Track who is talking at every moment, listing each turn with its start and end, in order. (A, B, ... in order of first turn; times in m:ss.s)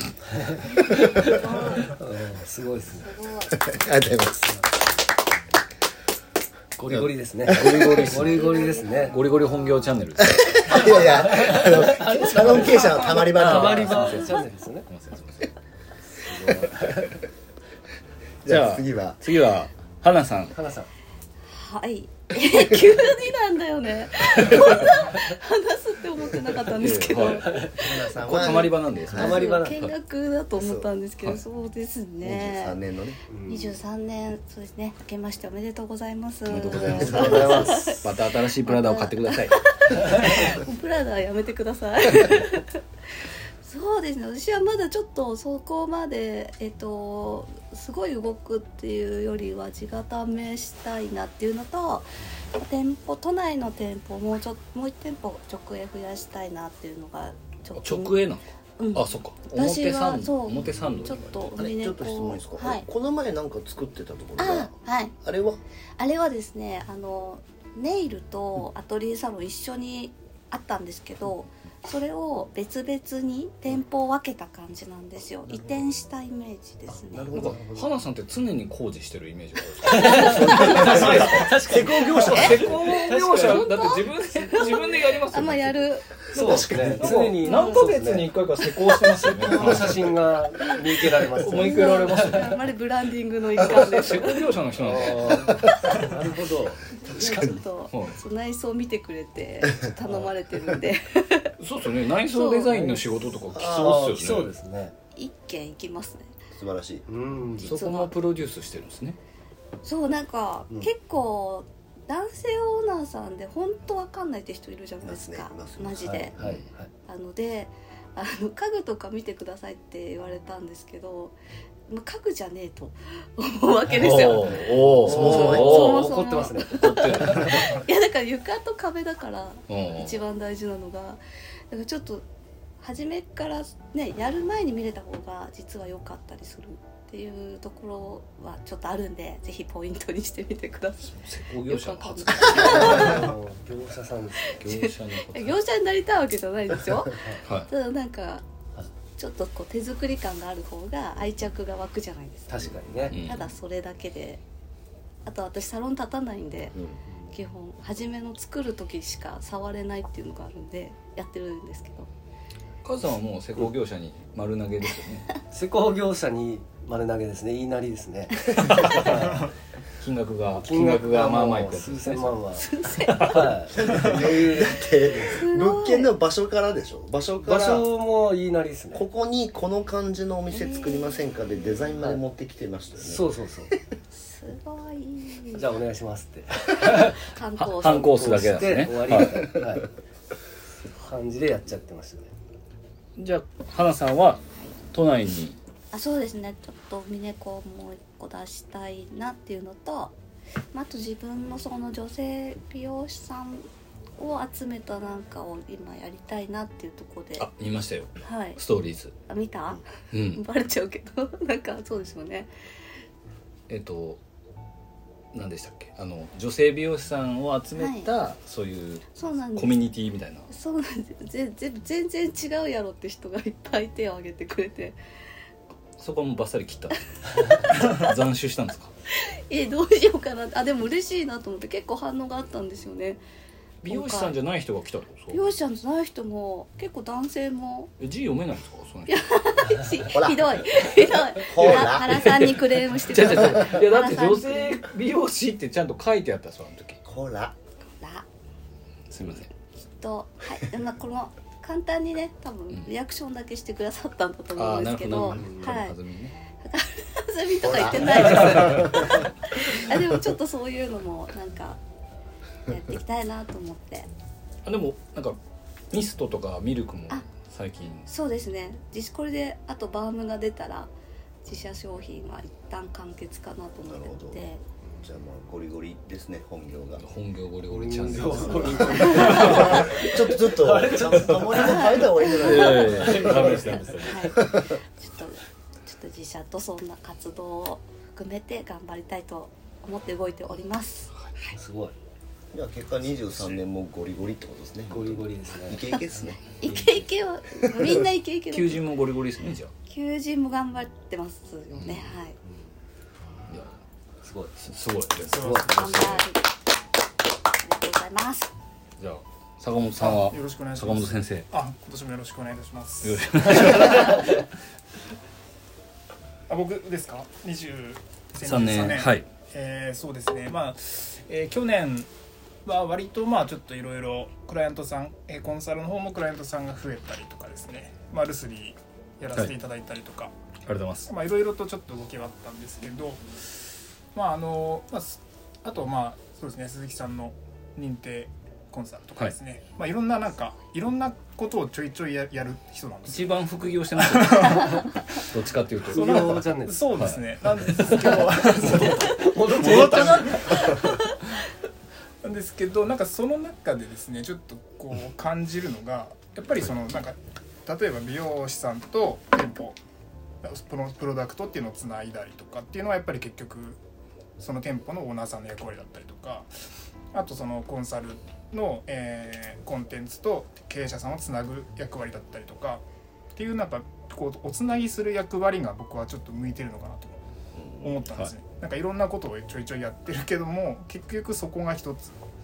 0:00.3-0:03.1 A
0:00.6-0:01.6 B
0:00.9-0:02.0 C
0:02.9-0:03.7 C
0:03.5-0:04.6 B
0:06.8-0:09.2 A
0:06.9-0:15.5 D
0:07.4-0:08.2 B
0:08.2-0:10.0 C
0:10.2-0:14.1 B
0:11.4-0:11.6 A
0:13.2-0:14.8 A
0:16.2-0:17.0 D
0:16.5-0:16.9 B
0:16.7-0:17.0 A
0:18.4-0:19.2 B
0:18.4-0:20.5 D
0:20.5-0:20.9 A
0:21.5-0:32.8 C
0:24.4-0:24.8 B
0:26.7-0:27.6 D
0:27.1-0:29.5 B
0:28.2-0:29.9 D
0:29.1-0:29.8 A
0:30.5-0:30.9 B
0:32.2-0:33.2 B
0:33.3-0:33.8 A
0:33.5-0:58.2 C
0:36.5-0:40.5 D
0:36.7-0:38.0 B
0:57.7-1:01.5 D
0:58.8-1:02.8 C
1:01.0-1:05.6 B
1:04.4-1:05.1 C
1:06.0-1:17.3 C
1:17.1-1:17.9 B
1:17.3-1:30.1 D
1:19.8-1:23.7 A
1:20.1-1:22.6 B
1:20.5-1:21.3 C
1:22.2-1:22.7 C
1:23.4-1:27.9 C
1:26.3-1:28.3 A
1:26.4-1:26.9 B
1:29.2-1:32.5 A
1:31.4-1:32.7 D
1:31.4-1:34.6 C
1:33.6-1:35.5 D
1:34.8-1:36.9 A
1:35.7-1:36.2 C
1:37.0-1:41.5 C
1:37.2-1:37.6 B
1:37.9-1:38.2 D
1:41.6-1:44.5 D
1:42.3-1:42.9 C
1:42.7-1:44.9 A
1:43.5-1:44.0 B
1:45.2-1:46.3 C
1:46.5-1:47.0 B
1:47.1-1:47.8 A
1:47.6-1:48.1 C
1:47.6-1:49.2 D
1:49.8-1:56.3 C
1:55.0-1:56.5 B
1:56.1-1:56.9 A
1:57.1-2:01.4 C
2:01.9-2:12.2 C
2:03.9-2:07.8 D
2:04.2-2:07.4 A
2:05.0-2:05.9 B
2:09.7-2:10.2 D
2:12.8-2:23.3 C
2:21.1-2:23.2 D
2:22.6-2:24.6 A
2:24.4-2:28.4 C
2:24.6-2:25.6 D
2:27.2-2:27.4 A
2:27.4-2:27.7 D
2:29.2-2:34.4 C
2:32.5-2:33.2 A
2:33.1-2:33.5 D
2:35.2-2:36.8 C
2:37.3-2:42.1 C
2:42.8-2:45.3 D
2:45.5-2:49.5 A
2:48.6-2:49.2 D
2:50.0-2:52.4 D
2:50.5-2:55.5 A
2:52.6-2:53.5 C
2:53.0-2:53.5 D
2:53.7-2:57.8 B
2:55.3-2:56.1 C
2:57.4-2:59.0 A
2:58.9-3:03.9 B
3:00.5-3:01.8 C
3:03.0-3:03.7 A
3:04.1-3:05.7 C
3:05.5-3:07.1 A
3:06.7-3:08.4 C
3:07.6-3:09.4 D
3:08.0-3:09.9 A
3:11.0-3:12.3 A
3:13.2-3:15.6 D
3:15.9-3:20.1 C
3:20.7-3:27.5 C
3:27.4-3:29.1 D
3:28.2-3:28.6 C
3:29.3-3:32.5 C
3:30.1-3:30.4 D
3:33.7-3:34.2 D
3:35.3-3:40.5 D
3:37.8-3:38.1 C
3:39.2-3:39.9 C
3:40.5-3:45.0 C
3:46.0-3:48.9 D
3:47.5-3:47.9 C
3:49.3-3:53.2 C
3:53.8-3:55.4 D
3:53.8-3:54.3 C
3:55.3-3:57.9 C
3:58.0-3:59.2 D
3:59.1-4:04.8 C
4:00.0-4:00.9 B
4:01.4-4:02.3 B
4:01.5-4:07.0 D
4:07.0-4:07.5 B
4:08.0-4:08.2 C
4:09.1-4:09.5 D
4:10.0-4:16.0 C
4:14.5-4:16.4 D
4:15.4-4:15.8 A
4:16.6-4:21.8 C
4:17.6-4:19.2 B
4:22.7-4:24.1 C
4:24.6-4:25.4 D
4:25.9-4:28.1 D
4:28.1-4:30.9 C
4:31.4-4:34.6 C
4:33.8-4:34.4 B
4:35.0-4:37.0 B
4:37.0-4:39.9 D
4:37.7-4:42.0 A
4:38.3-4:43.6 B
4:38.9-4:40.0 C
4:41.6-4:51.6 C
4:42.3-4:44.4 D
4:43.0-4:43.8 A
4:44.3-4:44.7 B
4:51.6-4:51.9 A
4:52.5-4:56.4 B
4:54.9-4:55.8 A
4:56.6-4:58.8 C
4:56.7-4:57.0 A
4:57.6-4:58.0 B
4:58.5-4:59.7 D
4:59.9-5:02.4 C
5:01.7-5:02.1 D
5:03.5-5:03.8 D
5:04.2-5:04.5 A
5:04.6-5:06.2 D
5:05.2-5:06.0 E
5:05.3-5:06.0 A
5:05.7-5:06.4 C
5:07.6-5:08.5 C
5:09.0-5:11.5 D
5:10.0-5:14.2 E
5:13.0-5:14.4 D
5:16.5-5:22.1 E
5:18.4-5:19.2 D
5:22.6-5:30.3 E
5:30.6-5:31.1 D
5:31.0-5:33.2 E
5:34.1-5:43.4 E
5:43.1-5:46.4 D
5:44.0-5:45.2 E
5:45.9-5:51.1 E
5:45.9-5:46.9 A
5:47.7-5:48.7 D
5:48.8-5:50.3 A
5:49.6-5:50.7 D
5:52.2-5:59.8 E
6:00.4-6:03.8 E
6:04.4-6:06.5 E
6:07.1-6:17.2 E
6:17.6-6:17.9 B
6:17.8-6:22.1 E